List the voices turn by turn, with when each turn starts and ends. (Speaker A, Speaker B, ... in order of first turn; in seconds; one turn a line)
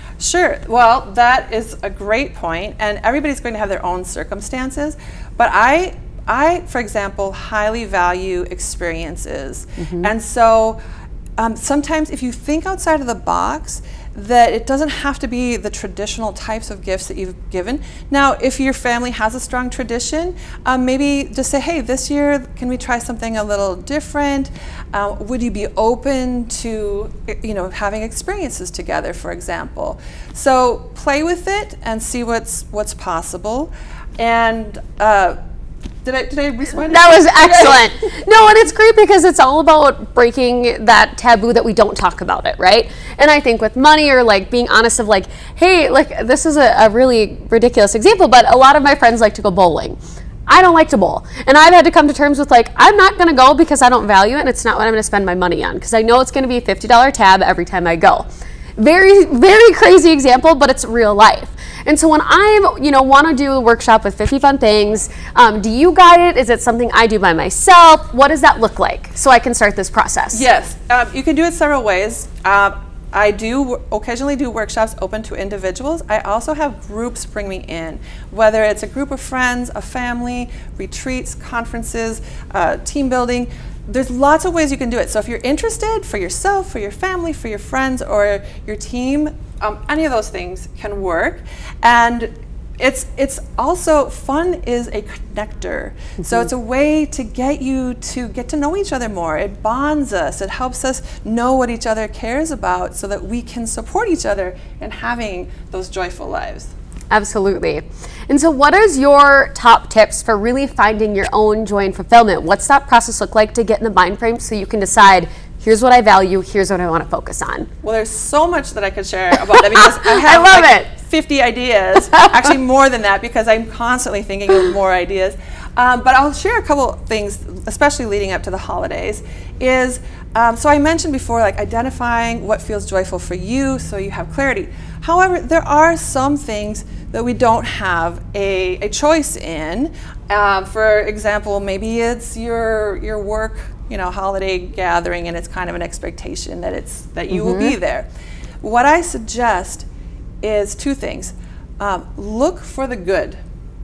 Speaker A: 0.2-10.8
Speaker B: 9.8-10.1
Speaker A: 11.4-35.4
Speaker A: 36.0-37.9
Speaker B: 36.8-58.2
Speaker B: 58.8-70.4
Speaker A: 70.3-106.7
Speaker B: 107.1-117.7
Speaker A: 117.8-148.1
Speaker B: 119.6-120.9
Speaker B: 147.3-147.7
Speaker A: 148.6-149.8
Speaker A: 150.4-153.4